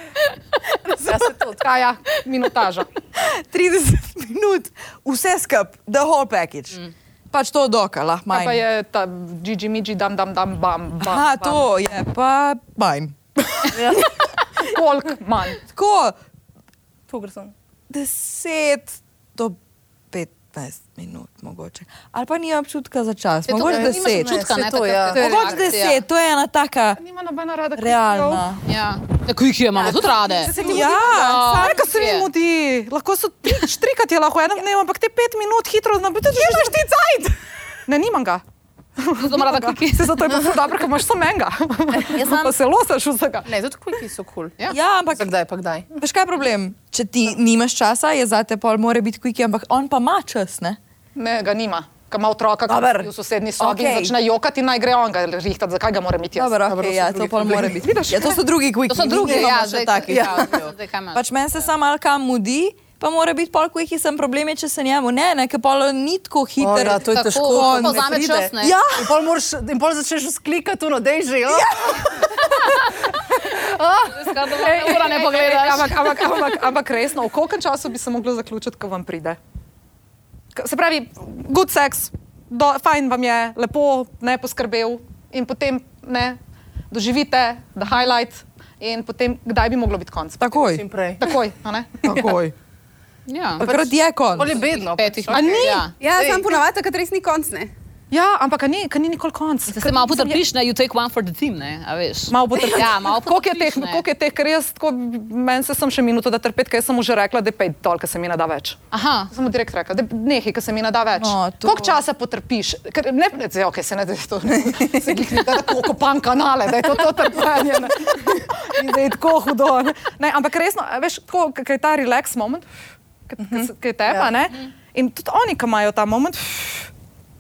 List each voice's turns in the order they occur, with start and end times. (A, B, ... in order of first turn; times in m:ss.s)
0:01.0-0:01.6 A
0:01.6-0:02.9 B
0:03.2-0:08.6 C
0:08.3-0:11.7 B
0:11.0-0:14.2 C
0:14.6-0:15.6 B
0:15.7-0:16.2 C
0:17.1-0:17.5 A
0:17.9-0:19.6 C
0:20.1-0:24.5 C
0:23.5-0:26.0 D
0:23.6-0:25.8 A
0:25.1-0:27.0 C
0:27.0-0:28.4 B
0:27.8-0:28.6 C
0:28.7-0:32.3 D
0:29.9-0:30.8 A
0:30.4-0:31.5 C
0:30.6-0:36.8 B
0:30.6-0:31.0 E
0:36.3-0:37.4 A
0:37.9-0:38.4 B
0:39.0-0:43.5 B
0:39.2-0:40.4 D
0:42.0-0:42.5 C
0:43.5-0:44.6 A
0:44.7-0:45.3 C
0:45.1-0:45.9 A
0:46.0-0:50.8 C
0:51.2-0:56.7 B
0:52.7-0:54.2 C
0:56.4-1:08.1 C
0:56.7-0:57.8 A
0:57.5-0:58.4 B
0:58.9-1:01.3 D
1:06.6-1:14.4 A
1:07.1-1:08.8 D
1:08.6-1:09.2 C
1:11.5-1:12.3 C
1:14.0-1:16.4 D
1:14.6-1:19.4 B
1:20.6-1:26.4 B
1:26.9-1:30.6 B
1:30.4-1:30.8 C
1:30.7-1:31.3 A
1:31.2-1:32.3 B
1:32.0-1:32.5 C
1:33.3-1:33.7 D
1:33.6-1:34.6 C
1:33.6-1:36.6 A
1:34.5-1:36.0 D
1:35.3-1:35.9 B
1:36.0-1:37.7 E
1:38.1-1:40.4 B
1:39.7-1:44.0 D
1:42.3-1:48.8 B
1:48.9-1:49.3 D
1:49.3-2:02.6 B
1:51.2-1:52.0 C
2:03.3-2:06.9 B
2:03.5-2:04.3 A